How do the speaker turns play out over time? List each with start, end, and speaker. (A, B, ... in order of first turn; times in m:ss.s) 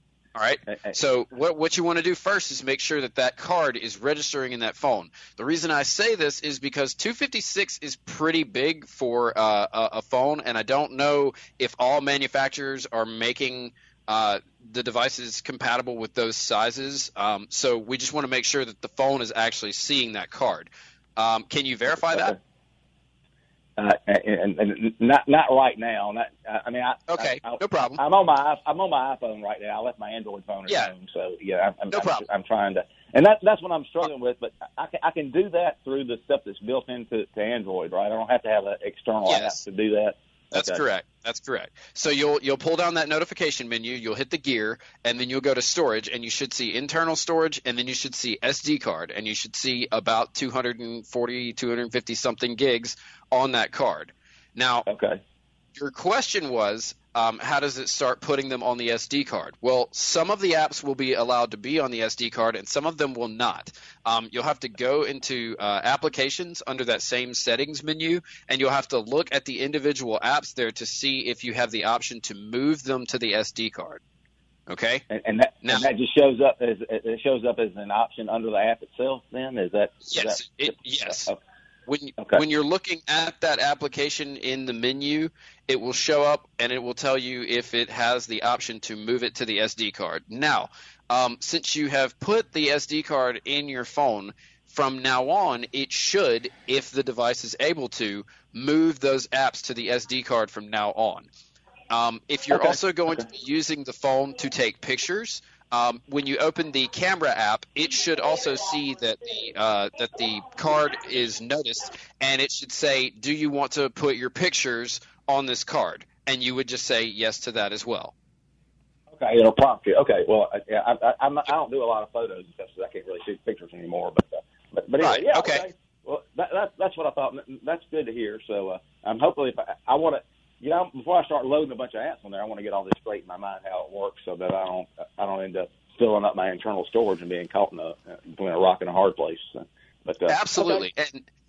0:00.4-0:22.4 A
0:00.7-0:01.0 B
0:22.1-0:22.4 B
0:23.8-0:40.8 B
0:27.1-0:28.0 A
0:30.7-0:30.9 A
0:31.9-0:32.2 A
0:39.2-0:39.6 A
0:40.5-0:54.9 A
0:54.9-0:55.2 B
0:55.8-1:14.0 A
1:14.7-1:15.0 A
1:15.1-1:21.4 B
1:20.1-1:21.3 A
1:21.9-1:41.3 A
1:22.2-1:22.4 B
1:41.9-1:58.1 A
1:42.5-1:43.2 B
1:59.1-2:20.8 B
2:05.0-2:05.7 A
2:20.3-2:21.2 A